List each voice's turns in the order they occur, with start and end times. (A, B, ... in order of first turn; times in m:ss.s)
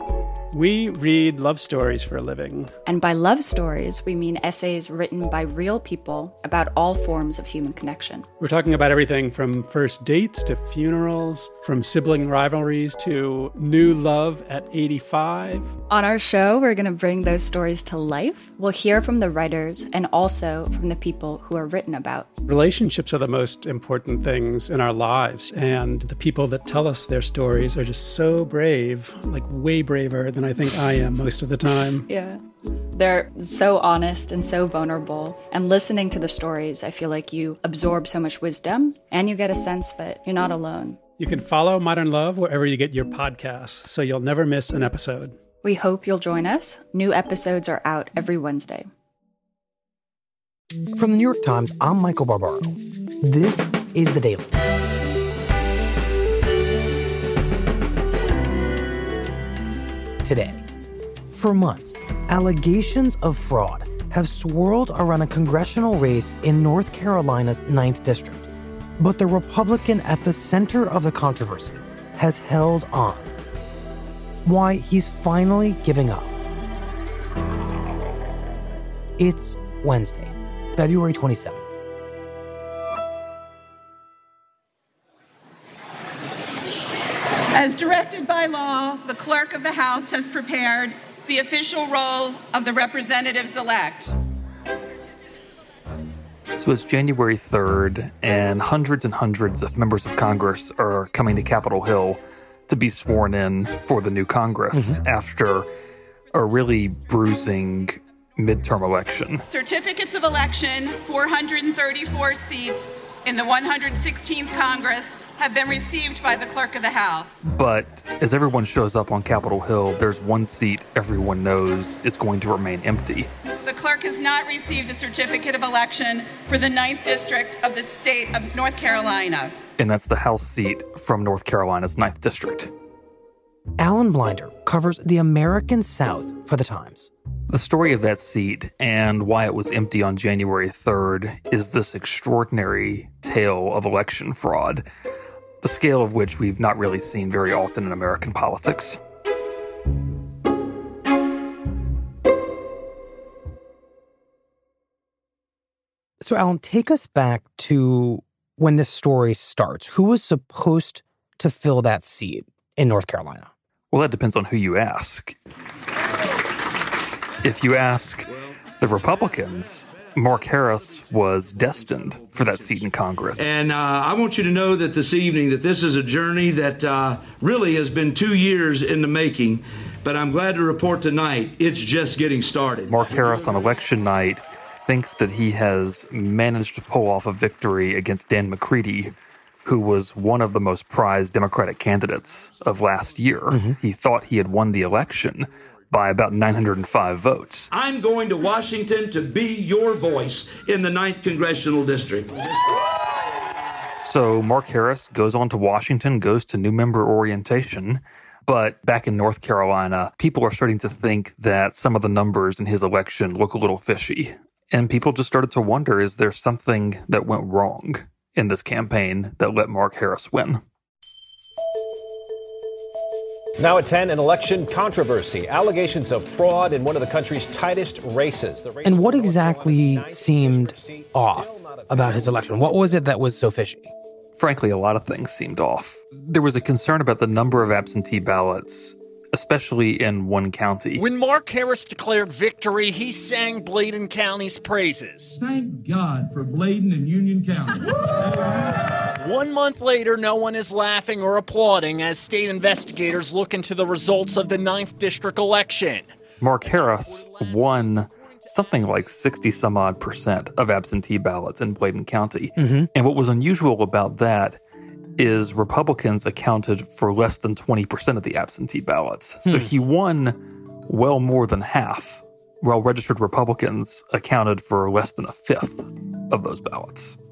0:00.5-0:02.7 A
0:02.9-0:08.3 B
0:08.4-0:15.8 A
0:15.9-0:22.3 B
0:22.5-0:32.1 A
0:32.1-0:32.4 B
0:32.9-0:41.0 B
0:41.2-0:45.4 A
0:45.6-0:48.9 B
0:50.9-0:54.6 C
1:00.2-1:00.6 C
1:01.3-1:13.3 C
1:14.4-1:16.4 C
1:19.2-1:21.6 C
1:27.5-1:34.1 D
1:36.6-1:45.7 E
1:44.7-1:45.0 C
1:46.3-1:49.4 E
1:49.4-1:57.4 D
1:57.4-2:03.3 E
2:03.6-2:09.5 D
2:09.8-2:12.7 E
2:13.8-2:17.1 C
2:17.5-2:24.9 E
2:25.6-2:29.0 E
2:36.2-2:43.5 C
2:43.9-2:45.4 E
2:47.4-2:53.5 E
2:48.3-2:48.6 F
2:53.4-3:03.1 F
3:02.9-3:09.1 E
3:09.6-3:17.7 E
3:13.5-3:13.8 C
3:17.7-3:22.4 F
3:24.0-3:40.6 E
3:43.6-3:52.7 G
3:48.8-3:53.9 C
3:54.4-4:01.1 E
4:01.0-4:05.4 H
4:05.6-4:07.6 I
4:09.2-4:16.1 H
4:16.4-4:24.6 E
4:22.6-4:22.9 C
4:25.2-4:37.2 E
4:29.4-4:29.7 C